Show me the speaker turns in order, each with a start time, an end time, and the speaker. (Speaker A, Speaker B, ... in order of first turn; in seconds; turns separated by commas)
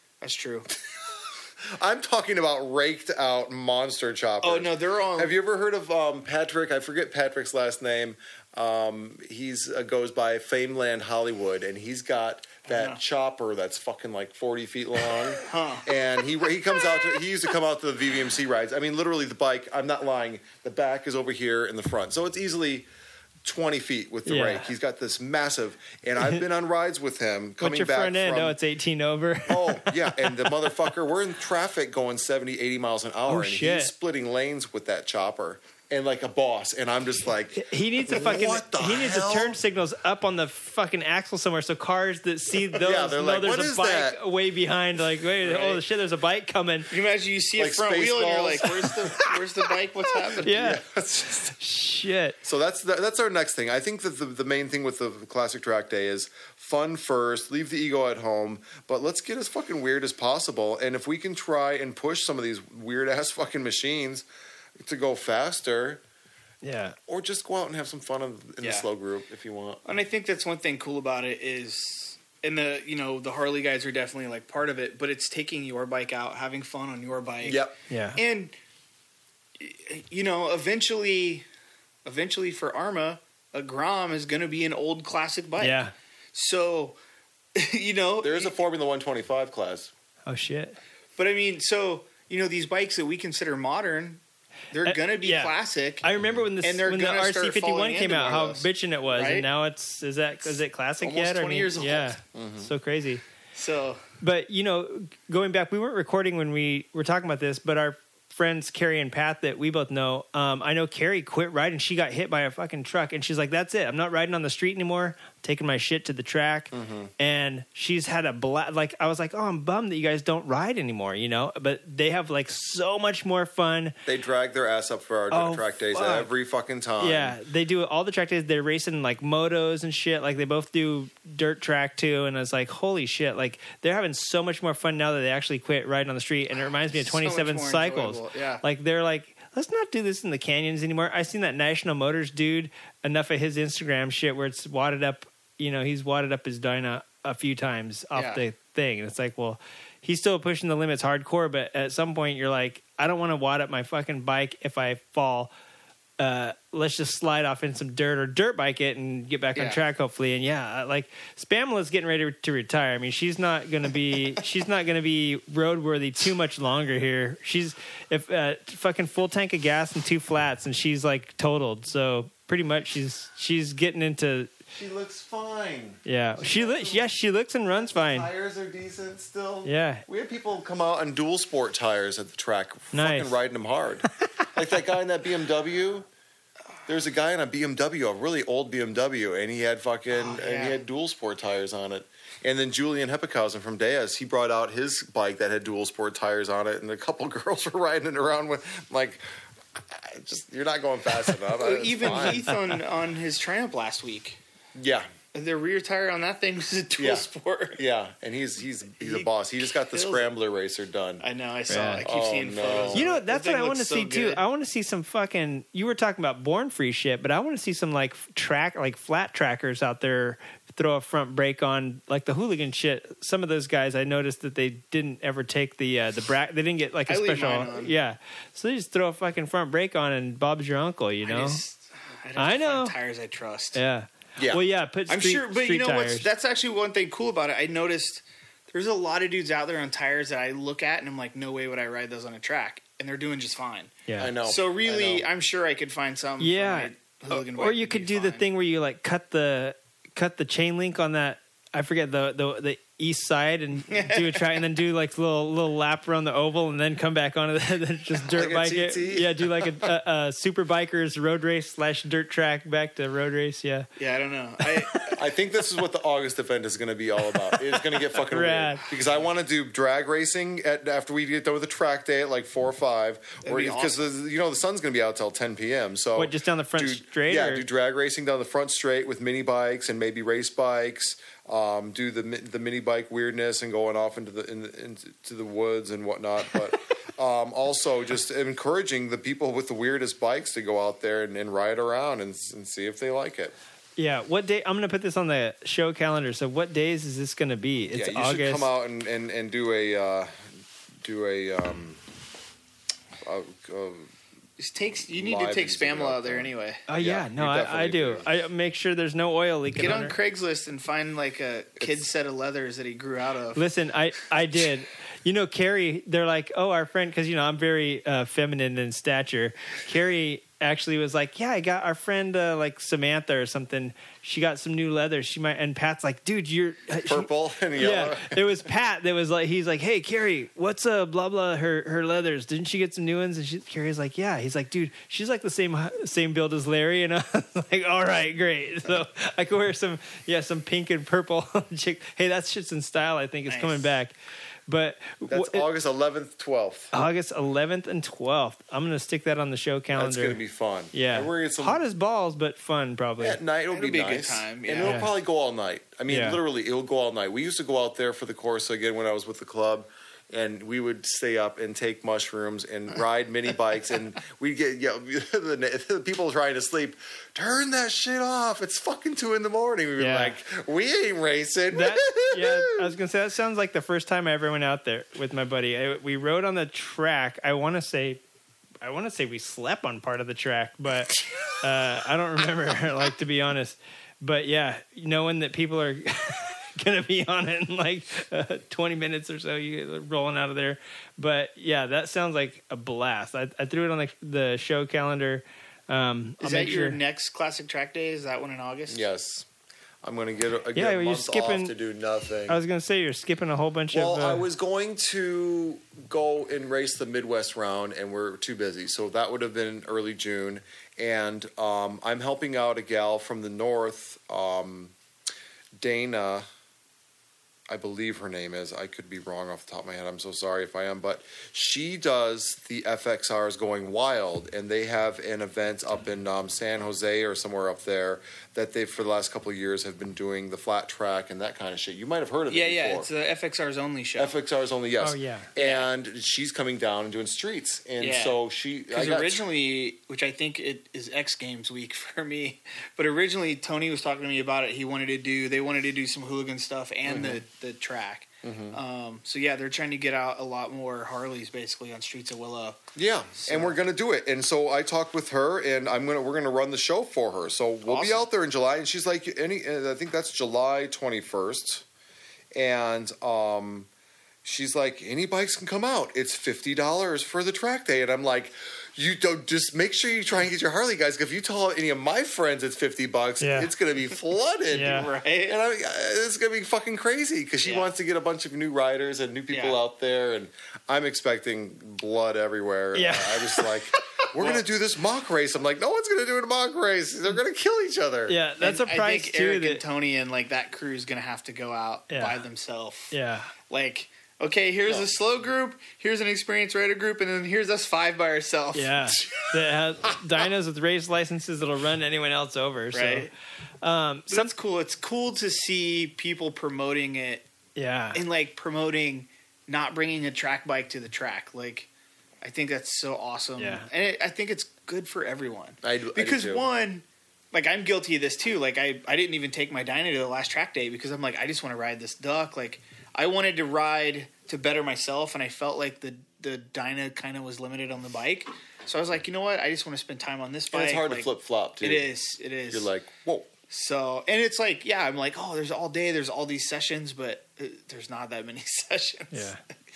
Speaker A: 0.2-0.7, Speaker B: 0.8-22.9, Speaker A: 4.4-5.3, Speaker A: 12.7-13.0, Speaker A: 15.4-15.9, Speaker B: 23.4-28.6, Speaker C: 24.3-24.7, Speaker C: 27.6-30.9, Speaker B: 29.5-39.6, Speaker C: 33.3-33.9, Speaker C: 37.6-46.9, Speaker B: 42.8-44.2, Speaker A: 45.4-45.8, Speaker A: 46.9-50.5, Speaker B: 47.6-49.4, Speaker B: 50.1-51.6, Speaker C: 50.4-50.8, Speaker C: 51.6-52.4, Speaker B: 52.4-64.3, Speaker B: 64.8-66.0, Speaker C: 66.6-67.0, Speaker B: 67.1-69.8, Speaker A: 68.6-68.9, Speaker A: 69.9-78.5, Speaker B: 77.4-77.7, Speaker C: 77.9-78.2, Speaker A: 79.6-81.5, Speaker A: 82.0-85.8, Speaker C: 85.6-85.9, Speaker A: 86.3-87.0, Speaker A: 87.6-88.5, Speaker B: 88.2-89.9, Speaker C: 90.3-90.8, Speaker A: 91.2-94.2, Speaker A: 94.7-96.0, Speaker C: 94.8-103.2, Speaker A: 96.6-99.5, Speaker A: 101.0-102.2, Speaker B: 102.3-102.7, Speaker A: 103.5-104.0, Speaker C: 104.2-124.0, Speaker B: 116.7-117.1, Speaker B: 124.1-127.4, Speaker C: 125.3-126.3, Speaker C: 127.0-155.5, Speaker A: 136.9-138.6, Speaker A: 148.2-148.4, Speaker C: 156.2-174.5, Speaker B: 174.7-177.1, Speaker C: 176.1-178.3, Speaker B: 177.8-186.1, Speaker C: 179.7-180.1, Speaker C: 182.9-183.3, Speaker B: 186.9-199.2, Speaker A: 190.1-190.8, Speaker B: 199.8-202.5, Speaker A: 201.6-204.4, Speaker C: 202.1-202.5, Speaker B: 204.8-205.1, Speaker A: 205.3-207.8, Speaker B: 207.0-211.2, Speaker A: 209.0-210.3, Speaker A: 211.2-214.4, Speaker C: 211.7-212.0, Speaker B: 212.0-213.0, Speaker C: 212.9-231.6, Speaker A: 227.1-227.9, Speaker A: 231.2-233.8, Speaker C: 232.4-232.9, Speaker C: 233.8-236.3, Speaker B: 234.4-234.6, Speaker A: 235.1-248.4, Speaker C: 244.1-244.3, Speaker B: 244.2-245.3, Speaker C: 246.4-263.9, Speaker A: 253.9-254.6, Speaker B: 258.3-259.9, Speaker A: 264.0-265.2, Speaker B: 265.1-293.5, Speaker C: 268.3-268.9, Speaker A: 273.4-274.0, Speaker C: 276.2-277.6, Speaker C: 294.0-298.7, Speaker B: 297.9-300.3, Speaker B: 301.0-302.0, Speaker B: 303.2-304.1, Speaker A: 304.6-306.8, Speaker B: 305.1-308.3, Speaker C: 306.9-310.2, Speaker A: 309.7-313.6, Speaker C: 313.6-344.1, Speaker B: 327.1-328.5, Speaker A: 343.5-343.9, Speaker C: 344.7-345.6, Speaker B: 345.3-346.9, Speaker C: 346.9-350.4, Speaker B: 349.9-351.8, Speaker C: 350.9-353.4, Speaker B: 353.2-372.9, Speaker A: 353.7-355.0, Speaker C: 354.8-355.1, Speaker C: 356.1-356.4, Speaker C: 370.0-370.4, Speaker C: 371.7-378.2, Speaker C: 378.8-397.0, Speaker A: 396.4-399.1, Speaker B: 398.9-399.5, Speaker B: 400.0-402.6, Speaker C: 400.8-401.7, Speaker C: 402.5-404.5, Speaker B: 403.9-414.9, Speaker B: 415.8-416.5, Speaker B: 417.7-433.1, Speaker A: 432.5-434.4, Speaker B: 434.2-439.4, Speaker C: 435.0-435.5, Speaker A: 435.6-435.9, Speaker A: 438.0-438.4, Speaker A: 438.9-452.8, Speaker B: 447.1-447.4, Speaker B: 448.4-448.8, Speaker B: 453.0-461.9, Speaker A: 453.4-453.8, Speaker A: 457.9-458.2, Speaker B: 462.6-463.9, Speaker B: 464.4-488.4, Speaker C: 473.4-473.7, Speaker C: 474.7-475.1, Speaker A: 474.8-475.6, Speaker A: 477.6-477.9, Speaker A: 479.5-479.8, Speaker C: 482.9-483.6, Speaker A: 484.2-484.6, Speaker C: 488.3-489.8, Speaker A: 488.6-493.1, Speaker C: 492.1-492.4, Speaker C: 493.1-493.5, Speaker A: 493.7-499.1, Speaker C: 498.8-503.3, Speaker A: 502.9-503.3, Speaker C: 503.8-504.5, Speaker A: 504.3-507.5, Speaker C: 507.8-508.2, Speaker A: 508.1-511.9, Speaker A: 512.4-531.3, Speaker C: 513.6-513.9, Speaker B: 515.8-516.7, Speaker B: 530.7-532.1, Speaker A: 531.8-532.9, Speaker B: 532.7-533.5, Speaker A: 533.7-539.5, Speaker C: 539.3-539.6